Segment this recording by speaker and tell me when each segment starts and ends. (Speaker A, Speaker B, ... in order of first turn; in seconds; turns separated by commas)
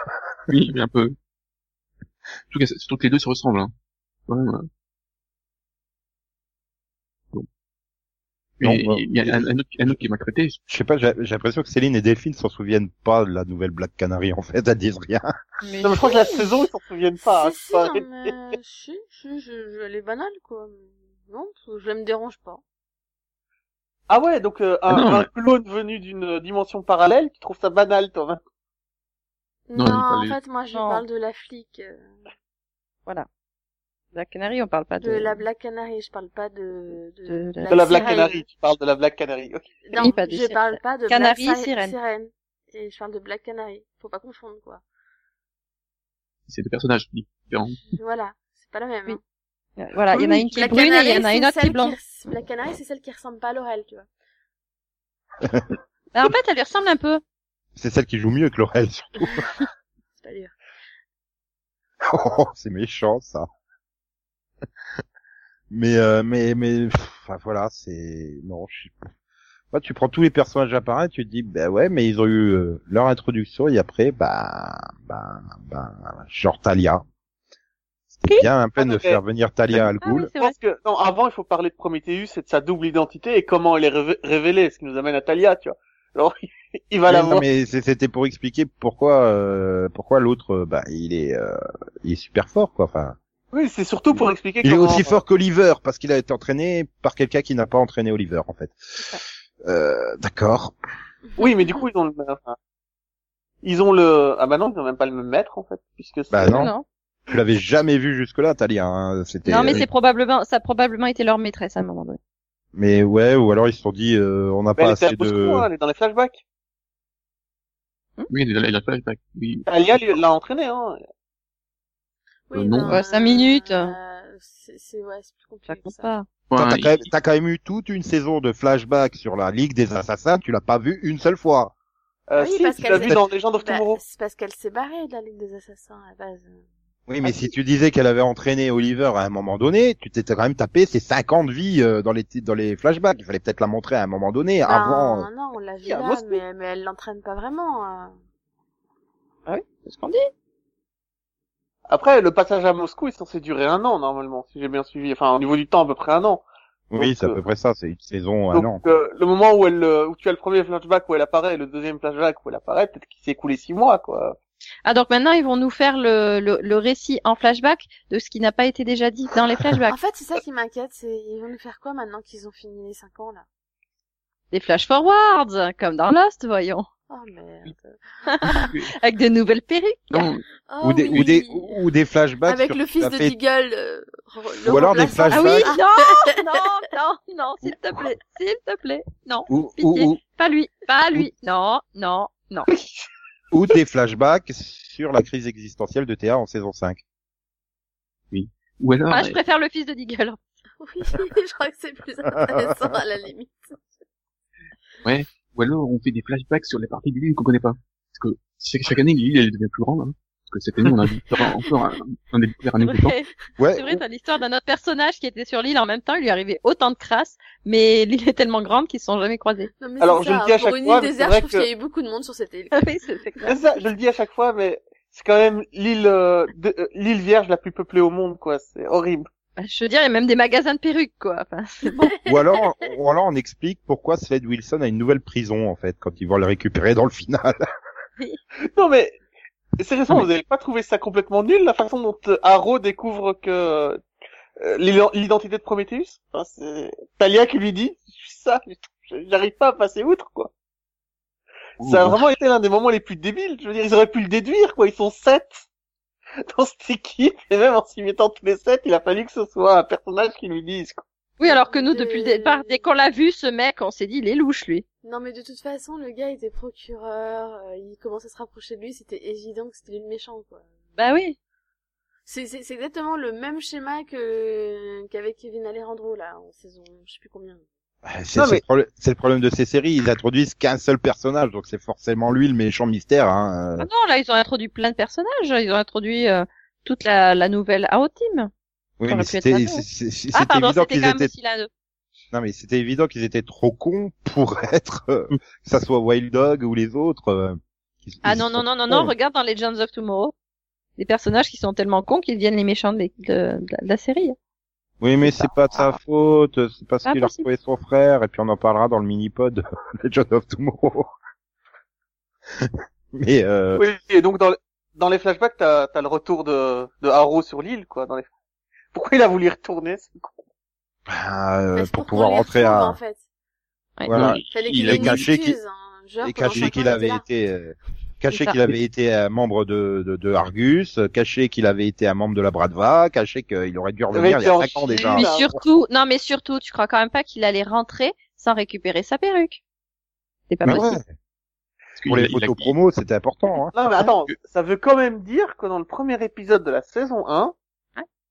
Speaker A: 0.5-1.1, Speaker A: 2.5-3.7, Speaker A: 4.3-4.7, Speaker A: 8.6-10.6, Speaker B: 8.6-9.5, Speaker B: 10.7-15.3, Speaker C: 15.6-16.1, Speaker D: 15.8-18.0, Speaker E: 17.2-22.6, Speaker D: 24.1-28.4, Speaker A: 24.9-25.3, Speaker E: 29.7-32.2, Speaker A: 29.8-30.4, Speaker C: 30.7-31.0, Speaker C: 34.1-35.4, Speaker E: 35.0-38.5, Speaker C: 37.3-37.7, Speaker D: 37.7-39.7, Speaker E: 39.9-44.8, Speaker C: 40.0-42.0, Speaker A: 46.5-47.8, Speaker E: 47.9-49.2, Speaker C: 49.8-52.0, Speaker E: 50.2-54.1, Speaker B: 55.4-55.7, Speaker C: 56.1-57.2, Speaker B: 57.8-59.5, Speaker E: 60.2-60.5, Speaker B: 62.1-63.5, Speaker B: 65.7-69.0, Speaker B: 69.7-77.0, Speaker B: 78.1-80.3, Speaker D: 78.8-79.2, Speaker C: 79.8-80.5, Speaker D: 80.3-87.5, Speaker B: 87.1-93.2, Speaker D: 93.5-95.2, Speaker B: 94.1-99.0, Speaker B: 99.6-100.8, Speaker D: 101.4-102.6, Speaker D: 103.6-106.7, Speaker B: 106.3-106.7, Speaker C: 106.5-106.8, Speaker B: 107.3-109.9, Speaker C: 109.5-112.2, Speaker B: 112.7-115.7, Speaker D: 114.8-116.4, Speaker A: 118.3-120.1, Speaker D: 119.7-121.0, Speaker E: 122.5-126.1, Speaker A: 122.5-123.0, Speaker C: 122.8-123.9, Speaker C: 125.7-126.3, Speaker A: 126.5-127.1, Speaker B: 126.6-131.7, Speaker D: 132.3-134.0, Speaker E: 132.4-136.6, Speaker B: 132.8-133.2, Speaker B: 137.1-145.3, Speaker E: 144.7-148.2, Speaker D: 145.8-146.4, Speaker C: 149.5-150.3, Speaker D: 151.9-156.4, Speaker B: 156.9-158.8, Speaker D: 157.0-157.4, Speaker D: 158.5-164.4, Speaker C: 164.8-169.9, Speaker E: 169.9-173.4, Speaker C: 174.5-176.9, Speaker E: 177.1-178.5, Speaker C: 178.3-180.3, Speaker A: 178.6-178.9, Speaker A: 180.1-180.4, Speaker E: 180.7-181.8, Speaker B: 180.8-183.3, Speaker E: 182.5-186.6, Speaker B: 184.7-185.7, Speaker C: 185.3-192.7, Speaker B: 189.5-190.2, Speaker B: 193.5-197.0, Speaker A: 198.3-199.4, Speaker C: 199.1-200.4, Speaker E: 200.8-203.8, Speaker A: 205.0-213.2, Speaker C: 212.8-219.7, Speaker B: 213.6-214.0, Speaker E: 219.8-223.5, Speaker D: 220.0-221.7, Speaker C: 222.7-223.6, Speaker D: 223.4-229.3, Speaker C: 229.6-232.2, Speaker E: 231.9-232.3, Speaker B: 232.3-237.6, Speaker D: 238.7-239.2, Speaker D: 239.8-244.0, Speaker D: 244.6-250.5, Speaker D: 251.8-255.6, Speaker B: 251.8-252.2, Speaker D: 256.5-261.0, Speaker C: 261.4-264.9, Speaker E: 261.4-262.9, Speaker E: 265.0-270.7, Speaker C: 271.0-271.4, Speaker E: 272.3-277.6, Speaker B: 278.1-283.9, Speaker D: 278.4-278.6, Speaker C: 283.8-288.5, Speaker B: 289.0-291.3, Speaker C: 289.1-291.7, Speaker B: 292.3-299.1, Speaker C: 298.2-300.3, Speaker C: 301.0-304.4, Speaker B: 305.0-311.1, Speaker C: 305.2-306.0, Speaker C: 307.0-307.5, Speaker B: 312.6-313.9, Speaker D: 313.8-318.3, Speaker D: 318.9-320.4, Speaker B: 321.1-323.0, Speaker E: 321.8-323.2, Speaker C: 324.0-324.3, Speaker B: 324.1-325.6, Speaker A: 324.1-325.2, Speaker E: 324.5-327.2, Speaker B: 326.2-335.3, Speaker C: 328.3-328.6, Speaker D: 334.1-335.5, Speaker C: 334.9-339.6, Speaker C: 340.5-341.0, Speaker B: 340.6-341.1, Speaker A: 342.0-342.7, Speaker B: 342.1-343.7, Speaker D: 343.7-347.5, Speaker A: 344.0-344.3